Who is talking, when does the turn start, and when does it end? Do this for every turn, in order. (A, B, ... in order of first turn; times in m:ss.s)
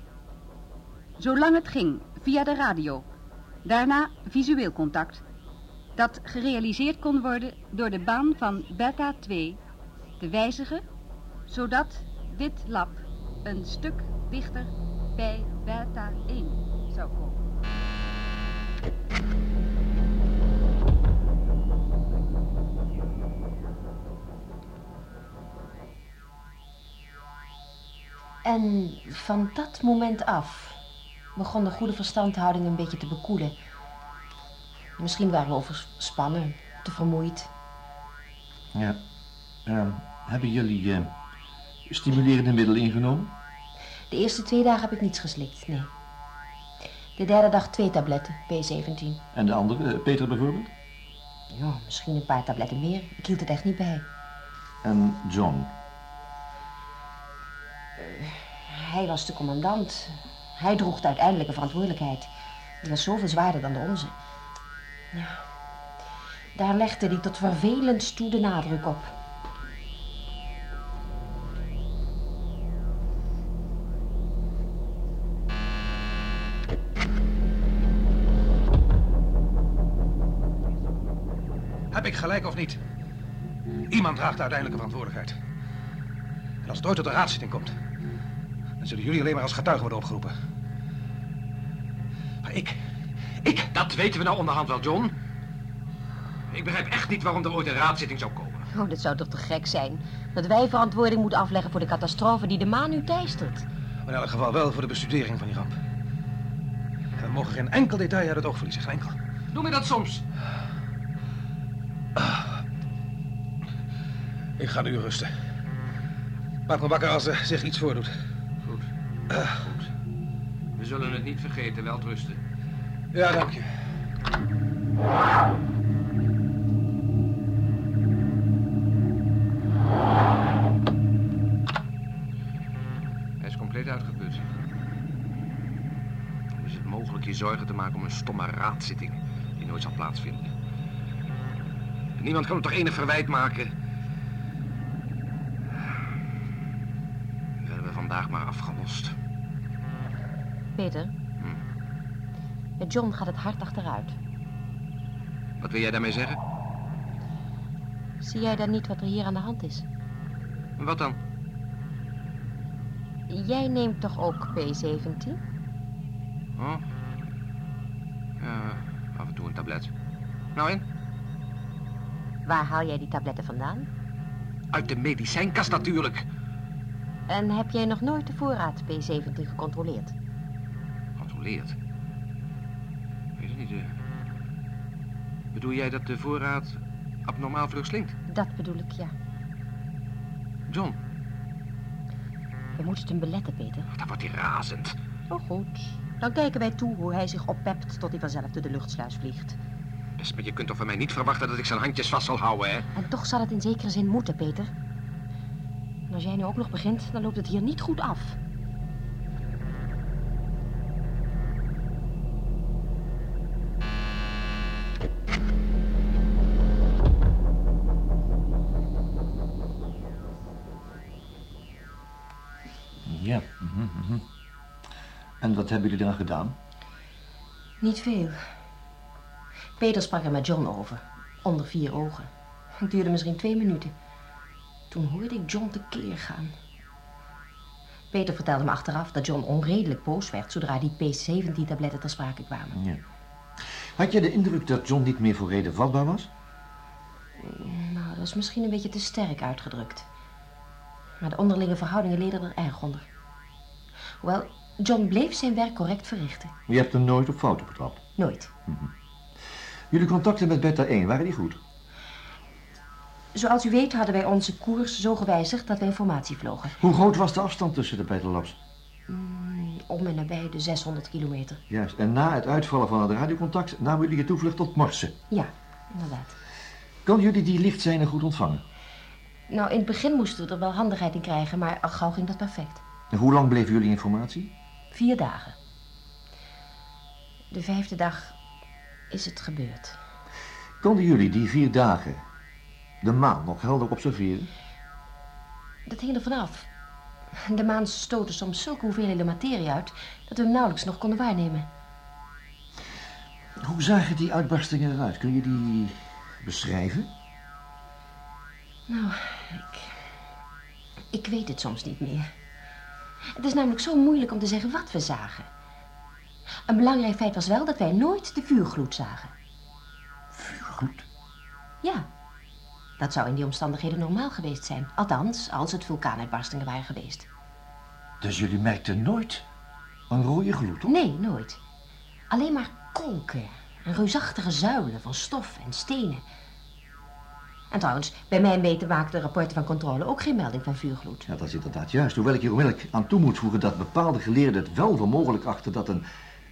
0:01.2-0:03.1 A
0:03.6-0:05.2 A
0:06.0-0:09.6 A
0:10.2-0:10.8 A
0:11.5-0:17.4 A
0:28.4-0:30.8 B
0:31.4-0:33.5 B
0:35.0-0:37.5 B
0:38.7-0:39.0 C
0:39.6-0:41.1 C
0:41.9-0:43.3 C
0:44.1-0:45.9 B
0:47.2-0:49.2 B
0:49.3-0:50.7 C
0:51.5-0:54.1 B
0:54.8-0:55.7 C
0:58.0-1:02.3 B
1:02.8-1:04.1 B
1:05.1-1:05.4 B
1:06.5-1:09.1 B
1:21.9-1:22.8 D
1:23.9-1:25.4 D
1:26.6-1:27.7 D
1:28.8-1:30.3 D
1:32.4-1:32.8 D
1:33.4-1:33.7 D
1:33.7-1:35.1 E
1:36.5-1:38.6 E
1:38.7-1:43.7 B
1:44.0-1:45.8 D
1:47.2-1:49.2 D
1:49.5-1:50.2 E
1:54.6-1:55.3 D
1:56.7-1:58.1 D
1:59.3-1:59.6 D
2:00.8-2:02.4 E
2:03.1-2:03.7 D
2:13.4-2:14.4 E
2:16.6-2:20.5 E
2:22.2-2:23.7 E
2:27.6-2:29.1 E
2:30.8-2:31.1 B
2:32.8-2:34.2 B
2:35.6-2:36.4 E
2:38.2-2:39.8 B
2:40.8-2:41.2 E
2:43.3-2:45.4 B
2:46.6-2:46.8 E
2:48.4-2:49.9 E
2:50.5-2:50.8 E
2:52.4-2:53.9 B
2:54.7-2:56.2 E
2:57.3-3:00.2 B
3:01.2-3:01.8 E
3:03.4-3:03.9 E
3:05.5-3:08.1 E
3:08.3-3:09.1 B
3:10.7-3:11.0 E
3:12.8-3:13.9 B
3:13.9-3:14.9 E
3:15.3-3:19.6 B
3:20.2-3:22.8 E
3:22.9-3:24.7 B
3:26.1-3:28.4 B
3:43.0-3:44.2 C
3:45.4-3:46.6 C
3:47.8-3:48.4 B
3:49.8-3:52.3 B
3:52.8-3:53.9 B
3:54.9-3:56.5 B
3:58.1-4:02.8 B
4:02.8-4:03.0 C
4:04.0-4:06.3 C
4:07.4-4:10.1 B
4:11.2-4:13.0 B
4:14.2-4:16.5 B
4:16.7-4:18.0 C
4:18.2-4:18.5 B
4:19.9-4:21.6 C
4:23.3-4:26.8 B
4:26.8-4:28.6 C
4:29.1-4:31.6 B
4:31.7-4:35.1 C
4:35.3-4:36.3 B
4:37.0-4:38.6 C
4:39.5-4:42.8 B
4:43.1-4:44.5 C
4:44.9-4:45.5 B
4:47.5-4:48.4 B
4:49.1-4:50.0 B
4:50.8-4:52.2 C
4:53.0-4:54.5 C
4:55.9-4:56.7 B
4:57.5-5:01.7 B
5:03.6-5:07.1 C
5:08.9-5:09.9 B
5:11.1-5:12.3 B
5:13.4-5:15.5 B
5:16.7-5:19.3 B
5:20.3-5:21.0 C
5:23.0-5:27.3 B
5:28.2-5:29.4 C
5:30.1-5:30.9 C
5:30.8-5:31.6 B
5:32.3-5:36.2 B
5:37.7-5:41.3 B
5:41.3-5:46.0 C